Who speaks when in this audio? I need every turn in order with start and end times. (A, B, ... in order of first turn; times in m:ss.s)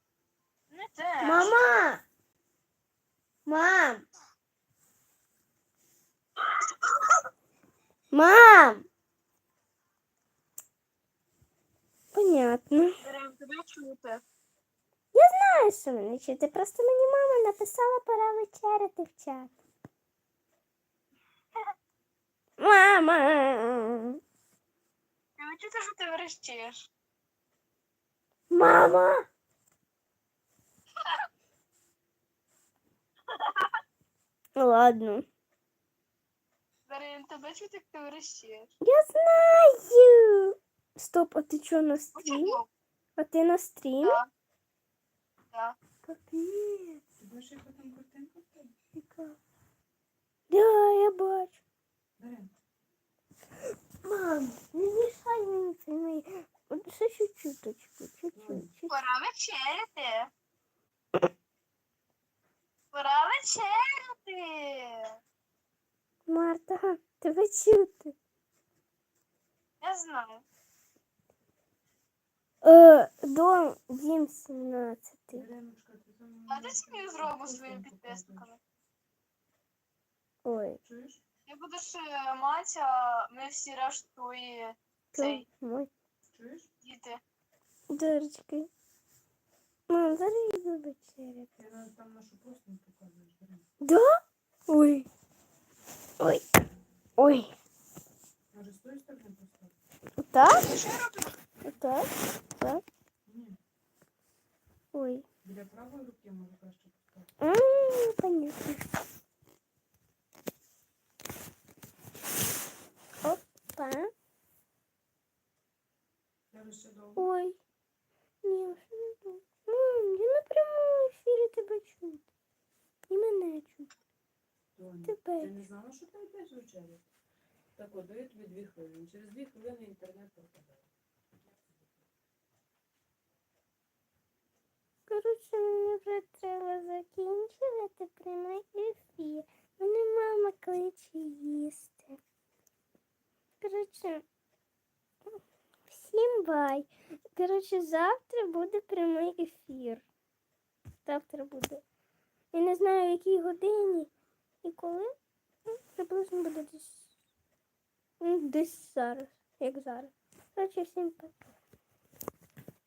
0:00.7-0:01.6 A
0:01.2-0:02.0 B
0:03.5-0:04.1 B
0:06.4-0:07.2 A
0:08.1-0:08.9 B
0:12.1-0:13.0 B
0:13.0-0:14.2 A
0:15.1-0:19.5 B
0:22.6-0:24.2 B
0:25.4-0:26.9 A
0:28.5-0:29.3 B
0:31.0-0:31.3 A
0:33.3-0:33.8 A
0:34.6-0:35.3 B
0:36.9-0:38.7 A
0:38.8-0:42.6 B
0:42.2-0:42.7 A
0:43.2-0:44.2 B
0:44.0-0:44.3 A
0:45.5-0:45.8 A
0:46.0-0:47.0 B
0:47.2-0:48.8 C
0:49.0-0:49.4 B
0:50.5-0:51.6 B
0:52.2-0:52.5 C
0:54.0-0:58.9 B
0:58.3-0:58.7 C
0:58.9-1:00.3 A
1:02.9-1:05.2 A
1:06.3-1:08.2 B
1:09.8-1:10.5 A
1:12.6-1:15.5 B
1:15.3-1:18.5 C
1:16.5-1:18.6 A
1:20.4-1:20.8 B
1:20.8-1:21.2 C
1:21.5-1:25.5 A
1:25.1-1:25.9 B
1:26.3-1:26.7 C
1:26.8-1:27.2 A
1:27.9-1:28.7 B
1:29.9-1:31.5 B
1:31.6-1:33.7 C
1:33.8-1:35.1 B
1:36.2-1:36.5 B
1:37.2-1:37.5 B
1:38.5-1:39.8 C
1:40.2-1:40.8 B
1:40.5-1:41.4 A
1:41.6-1:42.8 B
1:43.3-1:43.6 C
1:44.9-1:45.2 B
1:45.4-1:47.3 C
1:47.4-1:48.8 B
1:53.2-1:54.1 B
1:56.5-1:57.3 C
1:57.2-1:57.6 B
1:58.4-2:02.2 B
2:03.1-2:03.9 B
2:04.8-2:07.0 C
2:05.0-2:05.5 B
2:07.8-2:10.9 C
2:15.1-2:22.2 B
2:23.6-2:24.2 B
2:25.9-2:30.0 B
2:31.0-2:31.8 B
2:32.5-2:34.1 B
2:34.6-2:35.1 B
2:35.7-2:37.1 B
2:38.2-2:41.4 B